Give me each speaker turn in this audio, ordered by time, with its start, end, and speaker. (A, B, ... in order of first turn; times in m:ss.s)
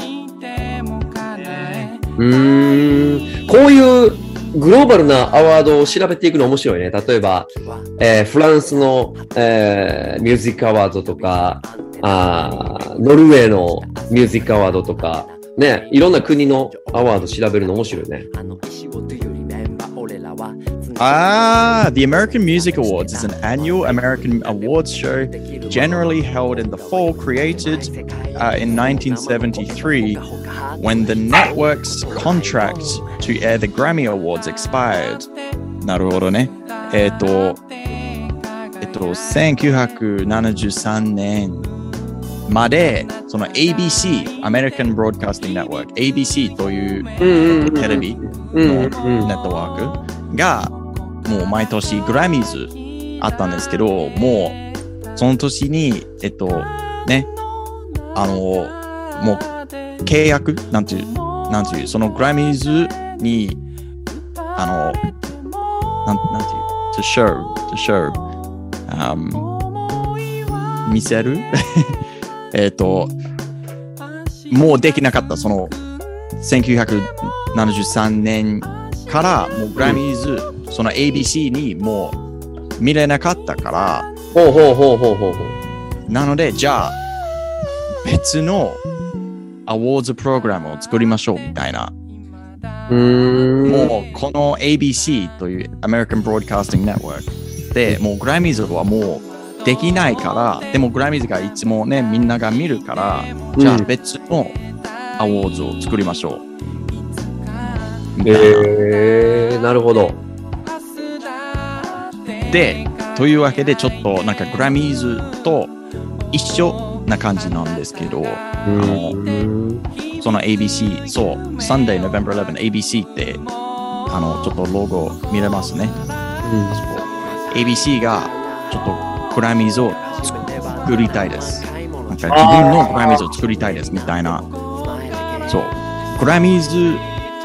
0:01.4-0:01.9 A
0:02.2-0:18.3 B
0:21.0-0:30.2 A
0:30.8-0:35.3 A
0:35.8-0:37.6 A
0:38.8-0:41.7 A
0:42.5-0:50.7 A
0:47.2-0:49.3 B
0:51.2-0:54.6 A
0:55.2-0:57.3 A
0:58.2-0:59.5 A
1:00.0-1:03.6 A
1:04.6-1:05.0 A
1:06.0-1:08.2 A
1:08.9-1:09.5 A
1:10.8-1:12.0 A
1:12.5-1:13.2 A
1:14.5-1:15.8 A
1:16.4-1:22.2 A
1:22.8-1:24.1 A
1:24.3-1:25.6 B
1:26.1-1:27.0 A
1:28.0-1:28.8 A
1:29.7-1:31.9 A
1:32.9-1:33.9 B
1:33.7-1:44.6 A
1:43.6-1:43.9 B
1:45.2-1:46.4 A
1:48.1-1:48.7 A
1:48.2-1:50.2 B
1:52.5-1:55.7 A
1:56.3-1:59.2 A
1:58.6-1:59.8 B
2:00.2-2:03.4 A
2:04.1-2:06.0 A
2:06.4-2:06.8 B
2:06.7-2:14.5 A
2:12.3-2:13.2 B
2:15.5-2:17.0 A